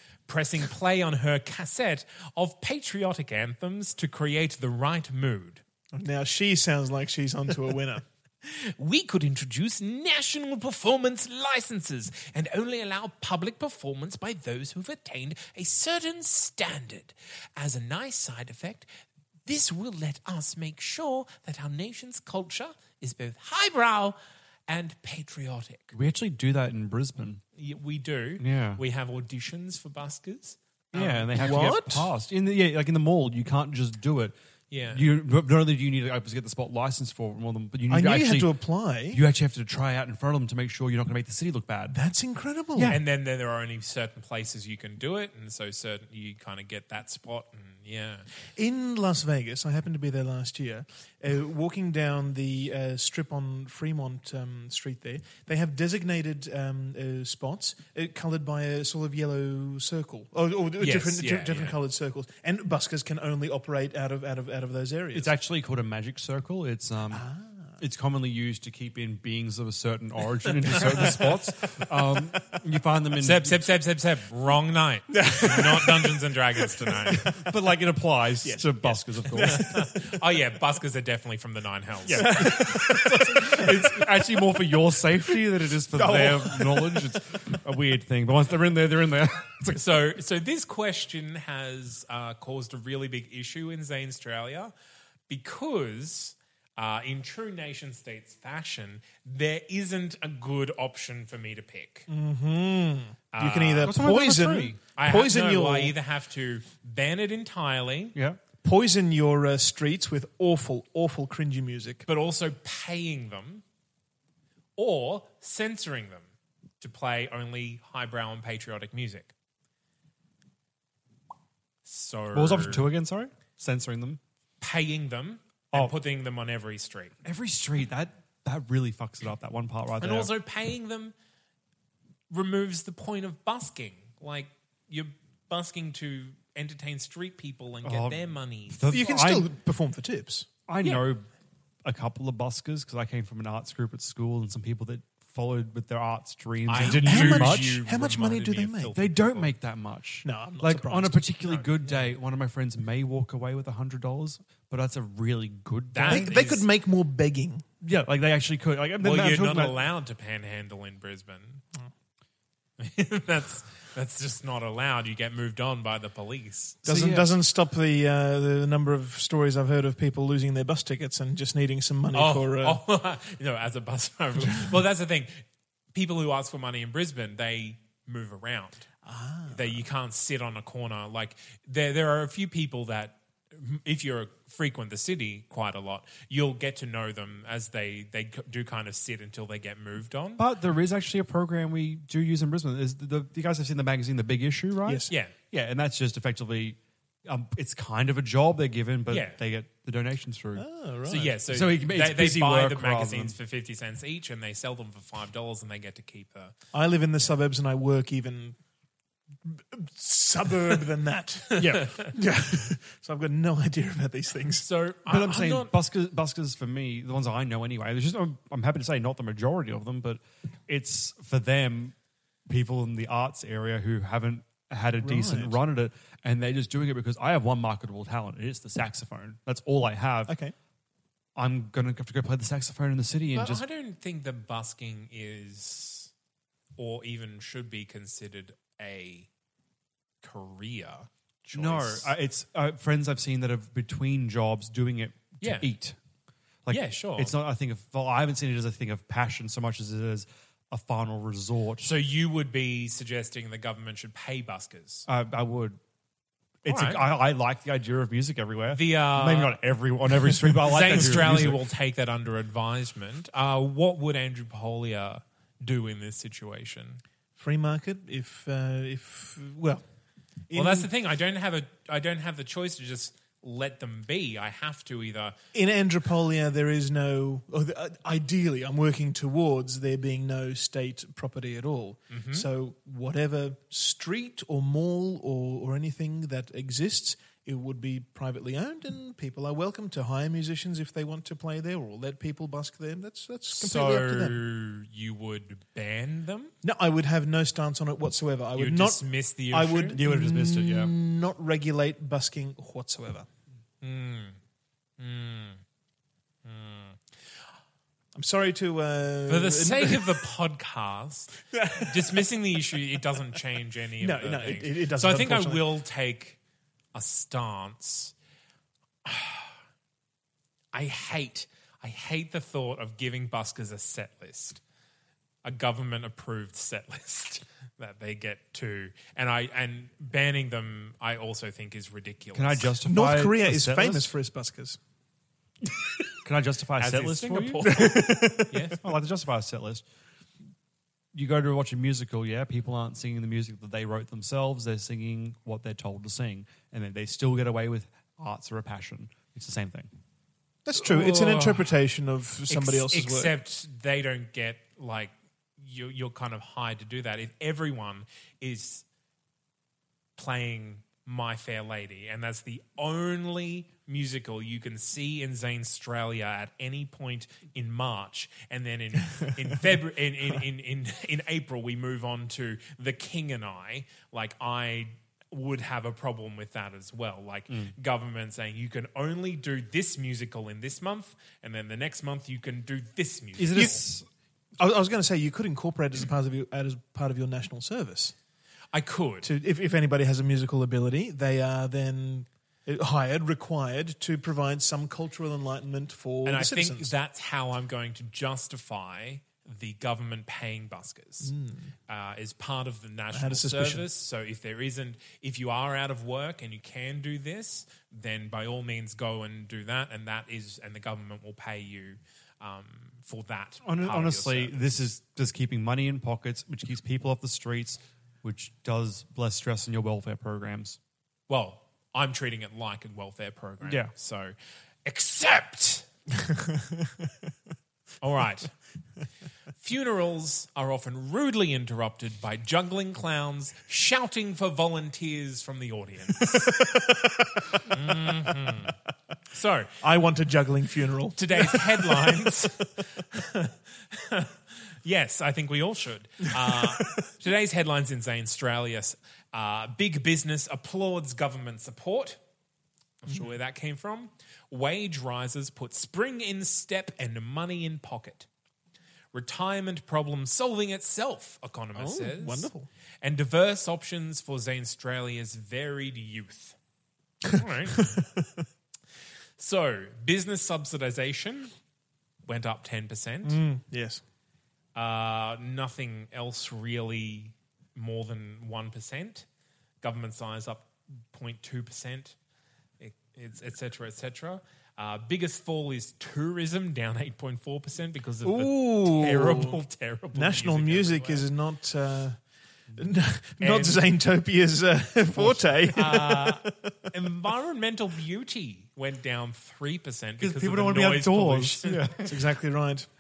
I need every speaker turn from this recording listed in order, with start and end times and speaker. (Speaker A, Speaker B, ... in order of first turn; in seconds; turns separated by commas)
Speaker A: 0.3-5.6, Speaker B: 5.9-8.0, Speaker A: 8.5-18.9, Speaker A: 19.5-24.2, Speaker A: 24.7-25.9, Speaker C: 25.9-27.4, Speaker A: 27.6-31.5, Speaker C: 28.4-28.8, Speaker C: 30.9-34.4, Speaker B: 31.3-32.1, Speaker A: 34.7-35.0, Speaker C: 34.9-38.5, Speaker B: 37.9-39.2, Speaker C: 39.1-42.0, Speaker B: 41.9-43.0, Speaker C: 42.8-43.0, Speaker A: 42.9-48.3, Speaker B: 48.6-65.3, Speaker A: 60.8-61.8, Speaker C: 65.1-67.3, Speaker B: 67.1-67.8, Speaker C: 67.8-73.7, Speaker B: 70.7-71.3, Speaker A: 73.2-77.3, Speaker B: 75.1-76.3, Speaker B: 76.9-77.3, Speaker C: 77.2-79.7, Speaker B: 78.4-80.1, Speaker A: 79.4-83.5, Speaker C: 82.1-90.0, Speaker B: 82.1-84.1, Speaker B: 85.9-87.1, Speaker A: 89.7-94.7, Speaker A: 95.3-102.1, Speaker B: 102.1-106.0, Speaker A: 103.3-104.0, Speaker C: 103.8-104.8, Speaker A: 105.0-108.2, Speaker C: 108.2-108.4, Speaker B: 108.6-112.1, Speaker A: 112.1-113.6, Speaker A: 114.8-116.3, Speaker A: 116.8-119.3, Speaker A: 121.8-122.9, Speaker C: 122.3-124.2, Speaker A: 124.6-127.1, Speaker C: 127.2-130.3, Speaker A: 130.0-131.1, Speaker A: 132.3-139.0, Speaker C: 137.8-139.5, Speaker B: 138.9-140.5, Speaker C: 140.7-141.3, Speaker C: 141.8-147.8, Speaker A: 146.7-149.5, Speaker B: 146.8-148.9, Speaker C: 148.9-156.4, Speaker B: 150.2-151.9, Speaker A: 155.9-156.7, Speaker B: 156.1-157.7, Speaker C: 157.8-159.8, Speaker A: 159.0-161.6, Speaker A: 162.8-166.8, Speaker C: 166.8-167.3, Speaker B: 166.9-172.8, Speaker A: 172.1-175.4, Speaker A: 175.9-178.9, Speaker B: 179.0-179.8, Speaker A: 179.5-190.4, Speaker C: 190.4-200.7, Speaker B: 194.9-195.1, Speaker A: 199.1-199.4, Speaker B: 200.6-201.3, Speaker A: 201.1-206.5, Speaker C: 201.2-203.4, Speaker B: 206.7-208.6, Speaker B: 209.5-214.7, Speaker C: 211.6-211.9, Speaker A: 211.8-212.1, Speaker A: 214.6-215.7, Speaker C: 215.1-221.9, Speaker C: 222.5-230.4, Speaker B: 225.0-225.6, Speaker B: 230.3-230.6, Speaker C: 231.4-233.6, Speaker A: 233.3-236.1, Speaker A: 236.8-239.3, Speaker A: 240.2-242.1, Speaker C: 241.5-246.0, Speaker A: 245.4-245.7, Speaker C: 246.7-251.9, Speaker A: 246.7-247.3, Speaker A: 251.8-255.1, Speaker C: 255.1-255.8, Speaker C: 256.6-261.6, Speaker A: 256.7-257.1, Speaker A: 258.7-259.6, Speaker A: 260.6-267.0, Speaker B: 267.4-269.8, Speaker B: 270.5-270.9, Speaker A: 270.5-275.4, Speaker B: 275.5-294.4, Speaker A: 282.1-282.5, Speaker A: 293.5-296.5, Speaker B: 296.6-303.3, Speaker A: 298.6-300.0, Speaker C: 299.9-300.9, Speaker A: 303.8-304.4, Speaker A: 305.0-305.6, Speaker A: 306.4-307.0, Speaker B: 308.1-310.2, Speaker A: 309.3-316.4, Speaker B: 311.5-312.2, Speaker B: 314.0-315.7, Speaker A: 316.9-318.1, Speaker A: 319.1-319.5, Speaker A: 320.7-324.6, Speaker A: 325.4-332.7, Speaker C: 332.3-334.1, Speaker B: 332.9-334.8, Speaker C: 336.2-337.9, Speaker A: 336.8-338.8, Speaker B: 337.7-338.6, Speaker C: 338.8-339.8, Speaker C: 341.1-349.9, Speaker B: 350.7-353.3, Speaker A: 350.8-351.6, Speaker A: 352.5-358.8, Speaker A: 360.2-383.8, Speaker C: 383.4-384.1, Speaker B: 384.6-388.1, Speaker A: 388.7-389.3, Speaker B: 389.2-396.9, Speaker A: 396.2-401.3, Speaker B: 401.2-401.7, Speaker A: 401.9-414.7, Speaker B: 403.1-403.9, Speaker C: 413.6-420.8, Speaker A: 421.3-425.9, Speaker C: 423.6-423.9, Speaker A: 428.0-428.5, Speaker A: 429.6-436.5, Speaker B: 436.2-437.6, Speaker A: 437.7-438.8, Speaker A: 439.3-439.7, Speaker B: 439.8-443.5, Speaker A: 441.2-442.6, Speaker A: 444.0-444.3, Speaker A: 444.8-452.2, Speaker B: 446.7-447.0, Speaker A: 453.0-458.3, Speaker A: 459.1-462.5, Speaker B: 461.8-462.7, Speaker A: 463.0-466.6, Speaker A: 467.3-468.0, Speaker A: 469.4-471.5, Speaker A: 472.3-473.4, Speaker B: 473.2-474.0, Speaker A: 474.8-479.3, Speaker A: 479.8-482.1, Speaker A: 482.8-491.2, Speaker B: 488.2-489.6, Speaker B: 490.1-492.2, Speaker B: 492.8-496.8, Speaker A: 493.4-493.8, Speaker A: 495.2-502.1, Speaker C: 500.2-502.0, Speaker B: 502.0-502.9